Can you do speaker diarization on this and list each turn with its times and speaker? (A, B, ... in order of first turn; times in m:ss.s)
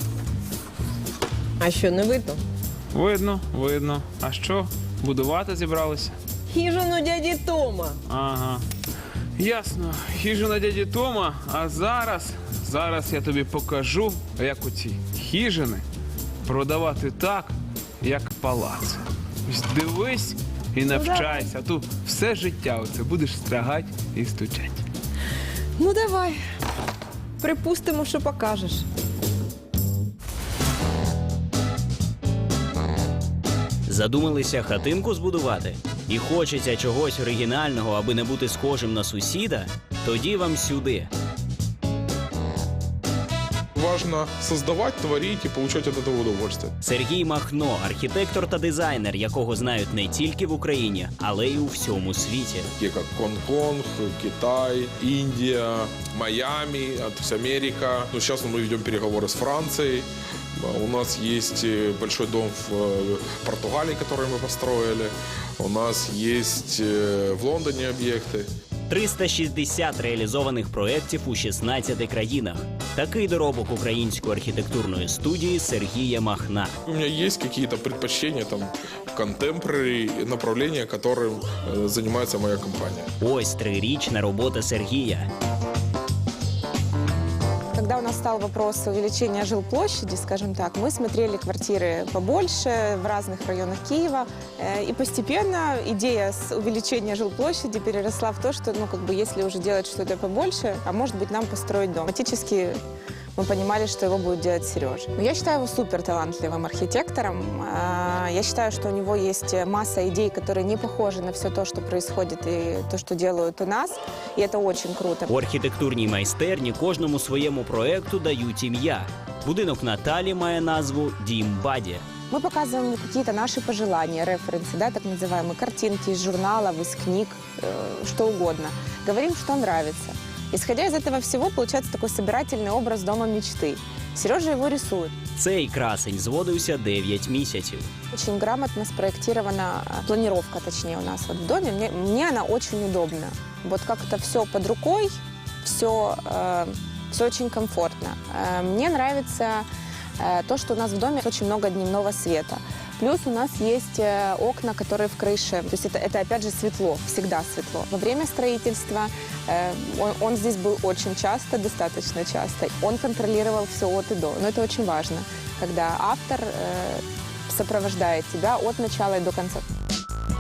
0:01.6-0:02.4 A
0:02.9-0:06.2 B
0:06.5-0:08.0 A
0:08.1-0:08.6 B
0:09.4-0:15.8 B
0:16.4-0:24.8 B
0:20.9-0:21.3 A
0:25.8-0:26.4 A
0:27.4-0:28.8 A
0:33.9-0:41.1 C
0:43.8-0:46.7 D
0:46.8-0:52.7 C
0:52.8-1:08.5 D
1:08.9-1:16.8 C
1:16.9-1:23.1 D
1:23.2-1:25.3 C
1:27.7-1:42.8 E
1:43.4-1:55.3 E
1:55.3-2:02.0 C
2:02.3-2:15.1 E
2:15.4-2:17.9 C
2:18.1-2:25.1 E
2:25.6-2:29.7 E
2:30.2-2:49.6 E